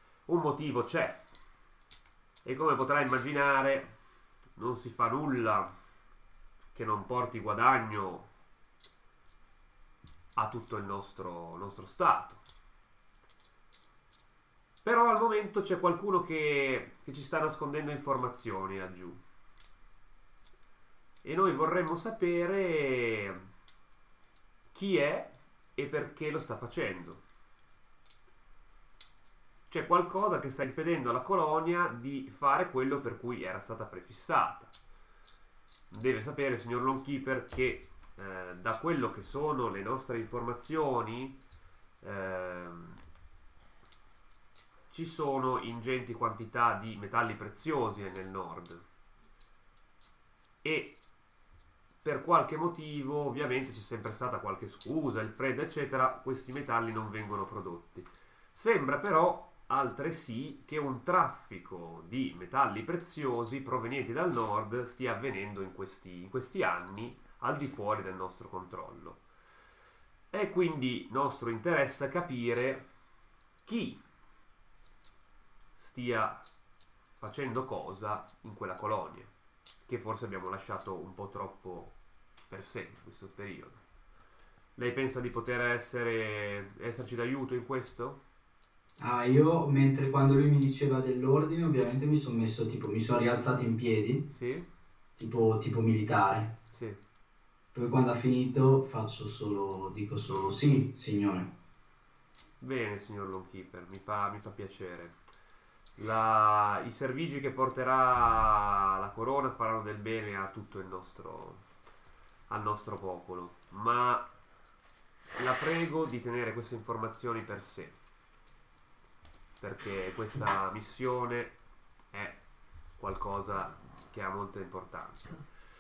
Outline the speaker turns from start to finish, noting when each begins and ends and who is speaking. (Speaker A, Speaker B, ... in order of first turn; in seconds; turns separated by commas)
Speaker A: 0.3-1.2, Speaker A: 2.4-3.9, Speaker A: 4.6-5.7, Speaker A: 6.7-8.3, Speaker A: 10.4-12.4, Speaker A: 14.8-19.2, Speaker A: 21.2-23.5, Speaker A: 24.7-27.2, Speaker A: 29.7-34.7, Speaker A: 35.9-41.4, Speaker A: 42.0-43.0, Speaker A: 44.9-48.8, Speaker A: 50.6-51.0, Speaker A: 52.0-69.2, Speaker A: 70.3-72.8, Speaker A: 73.7-74.0, Speaker A: 75.8-76.5, Speaker A: 77.2-79.3, Speaker A: 79.9-81.9, Speaker A: 82.5-83.8, Speaker A: 84.8-88.2, Speaker B: 89.0-94.3, Speaker A: 94.3-94.7, Speaker B: 95.2-96.5, Speaker A: 96.7-97.0, Speaker B: 97.7-101.5, Speaker A: 102.6-105.2, Speaker A: 106.0-111.6, Speaker A: 112.5-114.3, Speaker A: 115.4-118.0, Speaker A: 119.6-121.6, Speaker A: 122.1-122.4, Speaker A: 123.0-125.4